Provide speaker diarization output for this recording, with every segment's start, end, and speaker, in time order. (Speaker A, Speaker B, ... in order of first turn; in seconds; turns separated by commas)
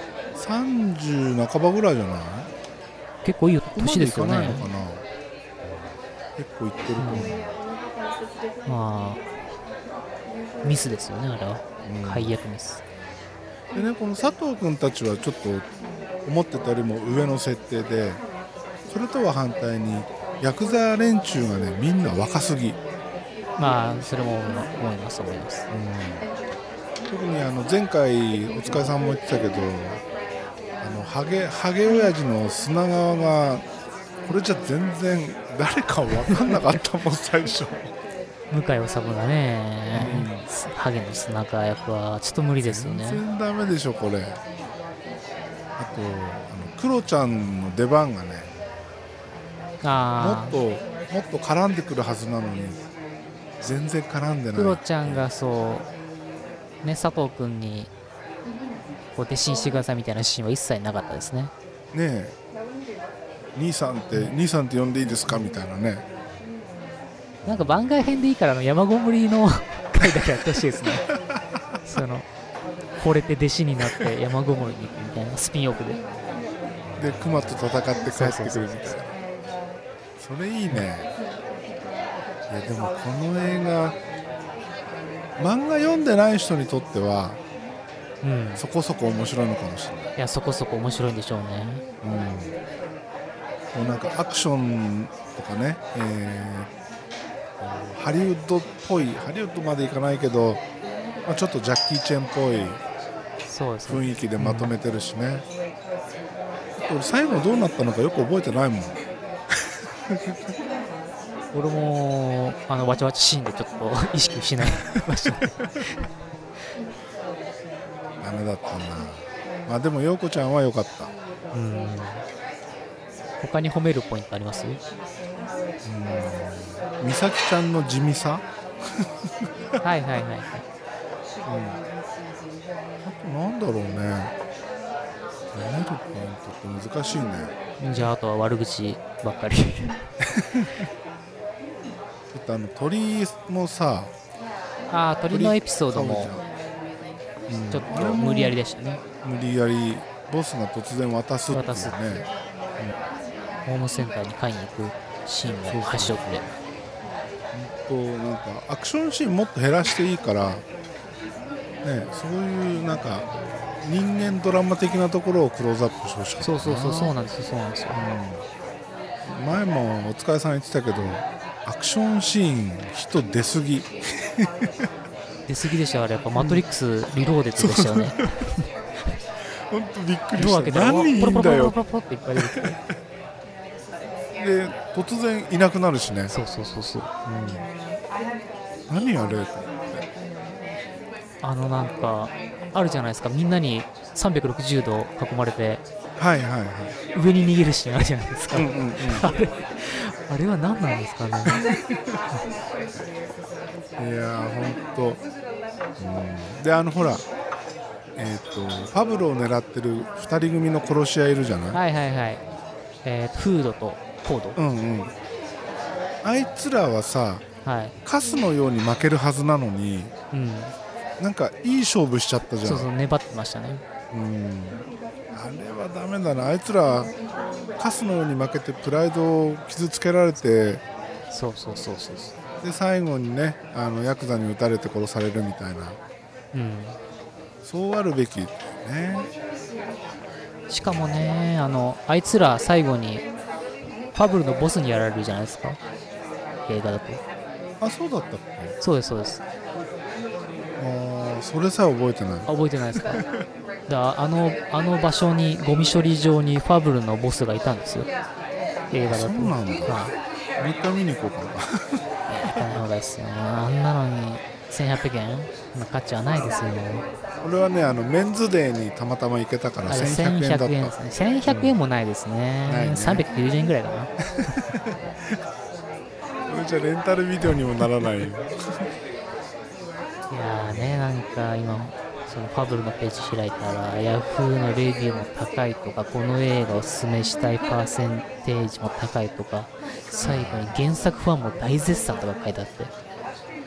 Speaker A: 0.4-2.5, Speaker B: 3.2-4.7, Speaker A: 3.7-5.0, Speaker A: 6.4-7.5, Speaker B: 7.0-7.3, Speaker B: 8.7-9.2, Speaker B: 10.6-12.8, Speaker A: 11.8-12.4, Speaker A: 13.7-15.7, Speaker A: 16.2-18.2, Speaker A: 18.9-22.8, Speaker B: 23.6-25.6, Speaker A: 25.7-26.3, Speaker A: 27.1-30.0, Speaker A: 30.8-33.6, Speaker A: 34.3-37.9, Speaker B: 36.3-36.6, Speaker B: 38.5-43.2, Speaker A: 40.0-40.5, Speaker A: 42.6-44.4, Speaker A: 45.8-48.5, Speaker B: 49.8-50.6, Speaker A: 50.2-52.8, Speaker A: 53.6-55.3, Speaker B: 54.5-55.9, Speaker B: 56.8-57.9, Speaker B: 59.2-61.5, Speaker A: 61.9-62.3, Speaker A: 63.5-66.0, Speaker A: 67.4-67.9, Speaker B: 67.5-71.1, Speaker B: 71.9-72.2, Speaker B: 73.0-76.0, Speaker A: 77.0-79.1, Speaker B: 78.1-79.0, Speaker A: 80.2-81.1, Speaker A: 82.5-84.0, Speaker A: 85.4-87.4, Speaker B: 88.2-88.6, Speaker A: 88.6-90.1, Speaker B: 90.2-91.8, Speaker A: 92.0-92.6, Speaker A: 93.7-96.7, Speaker A: 97.6-100.6, Speaker A: 101.3-102.8, Speaker B: 103.5-104.7, Speaker A: 103.9-105.5, Speaker A: 106.8-109.0, Speaker A: 110.1-110.4, Speaker B: 111.5-116.0, Speaker A: 118.2-121.1, Speaker B: 121.5-122.2, Speaker B: 123.4-124.8, Speaker A: 125.8-128.4, Speaker B: 129.8-130.6, Speaker A: 131.5-131.8, Speaker A: 133.0-134.3, Speaker A: 135.5-137.5, Speaker B: 137.8-140.0, Speaker A: 140.4-140.8, Speaker A: 142.3-144.1, Speaker B: 144.9-146.3, Speaker A: 145.3-146.4, Speaker A: 147.5-148.6, Speaker B: 147.7-149.0, Speaker A: 149.2-152.2, Speaker B: 151.5-152.0, Speaker B: 153.7-156.4, Speaker A: 155.7-156.5, Speaker A: 157.5-160.6, Speaker A: 161.8-163.3, Speaker A: 163.8-167.1, Speaker B: 166.4-168.0, Speaker A: 167.9-168.4, Speaker A: 169.3-174.5, Speaker B: 175.5-178.3, Speaker A: 176.4-176.6, Speaker A: 177.6-178.2, Speaker A: 179.7-181.8, Speaker B: 180.4-182.8, Speaker A: 182.5-182.8, Speaker A: 184.4-186.3, Speaker B: 186.3-187.1, Speaker A: 187.2-187.7, Speaker A: 188.9-190.0, Speaker B: 191.4-195.8, Speaker A: 196.2-196.9, Speaker B: 197.1-201.6, Speaker A: 198.5-199.3, Speaker A: 204.0-205.2, Speaker A: 206.0-207.2, Speaker A: 208.2-211.8, Speaker B: 211.7-212.4, Speaker B: 213.0-214.6, Speaker A: 214.6-215.1, Speaker A: 216.2-217.4, Speaker B: 217.7-217.9, Speaker A: 218.0-220.1, Speaker B: 220.3-220.7, Speaker A: 221.2-222.9, Speaker B: 222.6-223.8, Speaker A: 224.1-227.1, Speaker A: 227.8-230.8, Speaker B: 231.3-232.3, Speaker A: 232.6-236.0, Speaker B: 236.5-237.0, Speaker A: 237.6-239.3, Speaker B: 240.7-243.2, Speaker A: 240.9-241.2, Speaker B: 244.2-245.8, Speaker B: 246.7-247.2, Speaker A: 247.8-248.8, Speaker B: 248.8-249.4, Speaker A: 250.8-253.2, Speaker B: 252.5-253.2, Speaker B: 253.9-258.1, Speaker B: 258.9-260.1, Speaker A: 259.1-260.0, Speaker A: 260.6-261.9, Speaker B: 262.3-267.0, Speaker A: 267.4-270.9, Speaker B: 269.9-274.1, Speaker A: 271.5-271.8, Speaker A: 272.7-273.2, Speaker A: 274.4-274.8, Speaker A: 276.5-278.5, Speaker B: 280.3-292.9, Speaker A: 280.7-281.0, Speaker A: 290.2-290.8